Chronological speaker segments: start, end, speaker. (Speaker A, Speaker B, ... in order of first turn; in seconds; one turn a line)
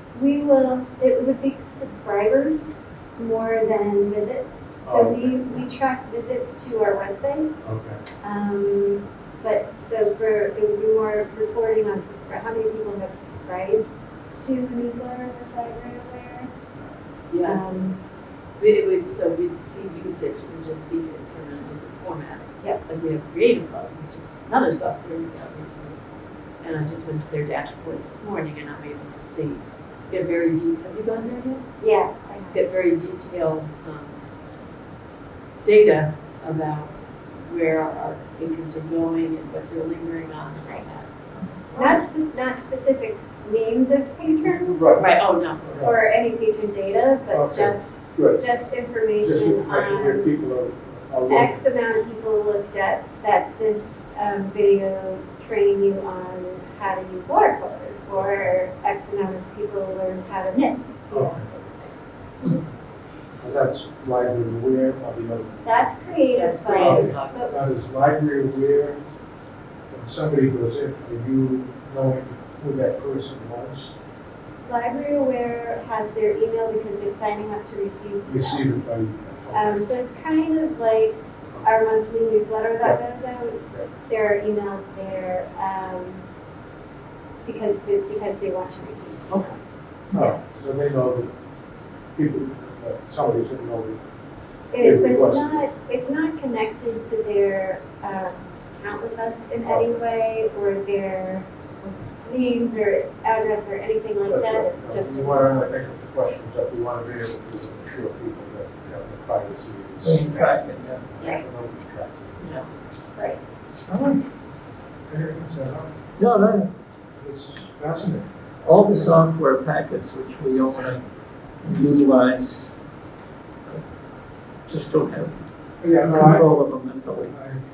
Speaker A: 0.1-7.5
Speaker B: 4.8-5.7
Speaker B: 7.6-8.0
Speaker A: 8.2-13.8
Speaker A: 14.4-16.5
Speaker C: 17.3-17.6
Speaker A: 17.4-18.0
Speaker C: 18.6-26.0
Speaker C: 26.6-31.6
Speaker A: 31.8-32.6
Speaker C: 32.5-34.2
Speaker C: 35.6-42.0
Speaker A: 41.8-44.9
Speaker B: 44.5-46.0
Speaker C: 45.0-45.7
Speaker A: 45.8-50.3
Speaker B: 47.3-48.4
Speaker B: 49.2-51.6
Speaker A: 51.3-61.7
Speaker B: 58.1-58.6
Speaker B: 61.1-61.5
Speaker B: 63.4-65.9
Speaker A: 65.6-67.6
Speaker C: 66.3-67.4
Speaker B: 66.8-69.0
Speaker B: 69.9-74.0
Speaker A: 74.7-78.8
Speaker B: 78.2-79.9
Speaker A: 79.5-86.2
Speaker A: 87.5-90.4
Speaker B: 89.3-89.6
Speaker B: 90.1-91.3
Speaker B: 92.2-94.0
Speaker A: 94.7-101.5
Speaker B: 94.8-95.7
Speaker B: 99.7-100.0
Speaker A: 102.2-105.7
Speaker B: 104.2-112.4
Speaker D: 110.0-111.1
Speaker B: 113.9-114.2
Speaker B: 115.1-115.9
Speaker D: 116.2-116.7
Speaker B: 117.2-118.3
Speaker D: 118.6-121.0
Speaker B: 118.9-119.2
Speaker D: 121.6-122.8
Speaker D: 124.7-125.4
Speaker B: 125.8-126.5
Speaker D: 126.0-127.3
Speaker B: 127.2-127.6